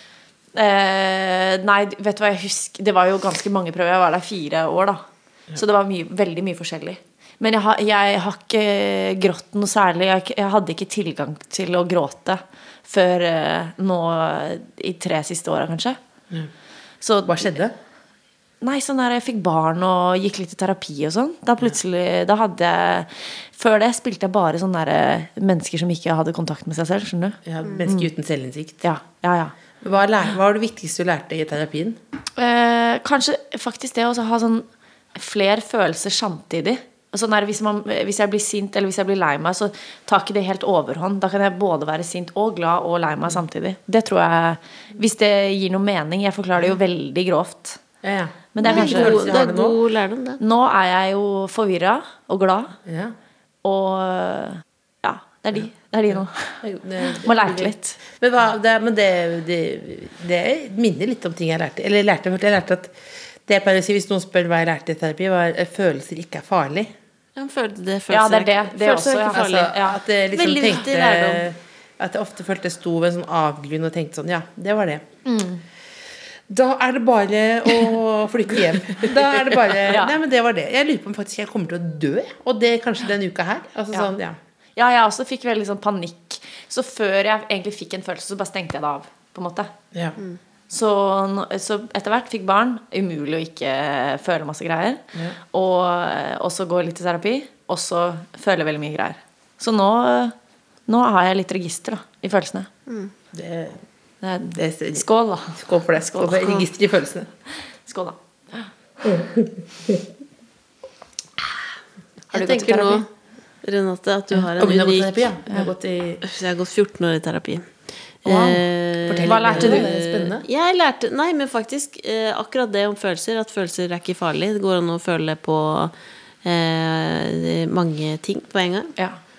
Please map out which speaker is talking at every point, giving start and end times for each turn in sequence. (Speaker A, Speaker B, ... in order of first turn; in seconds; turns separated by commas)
Speaker A: 0.6-5.0, Speaker A: 5.5-16.0, Speaker A: 17.0-17.5, Speaker B: 17.3-17.7, Speaker A: 18.6-28.1, Speaker B: 27.5-28.8, Speaker A: 28.8-29.5, Speaker B: 29.8-32.0, Speaker A: 32.4-47.8, Speaker B: 48.0-49.8, Speaker A: 48.5-49.4, Speaker C: 48.6-50.4, Speaker A: 50.4-52.8, Speaker B: 52.9-53.1, Speaker A: 53.6-58.0, Speaker B: 56.6-62.9, Speaker B: 63.5-66.9, Speaker C: 67.4-69.8, Speaker A: 68.1-70.0, Speaker B: 69.3-75.0, Speaker C: 70.3-71.5, Speaker A: 75.2-75.6, Speaker B: 76.5-84.4, Speaker A: 79.8-80.2, Speaker A: 84.8-89.8, Speaker A: 90.7-100.3, Speaker A: 100.9-102.7, Speaker B: 103.3-103.8, Speaker A: 104.2-105.6, Speaker B: 104.5-107.3, Speaker A: 106.1-106.4, Speaker C: 106.4-106.7, Speaker A: 107.9-108.7, Speaker B: 109.0-110.0, Speaker A: 112.3-113.0, Speaker C: 112.3-113.1, Speaker C: 113.6-115.3, Speaker B: 114.6-116.2, Speaker C: 116.2-125.9, Speaker B: 118.3-120.5, Speaker A: 119.3-119.9, Speaker C: 126.4-129.0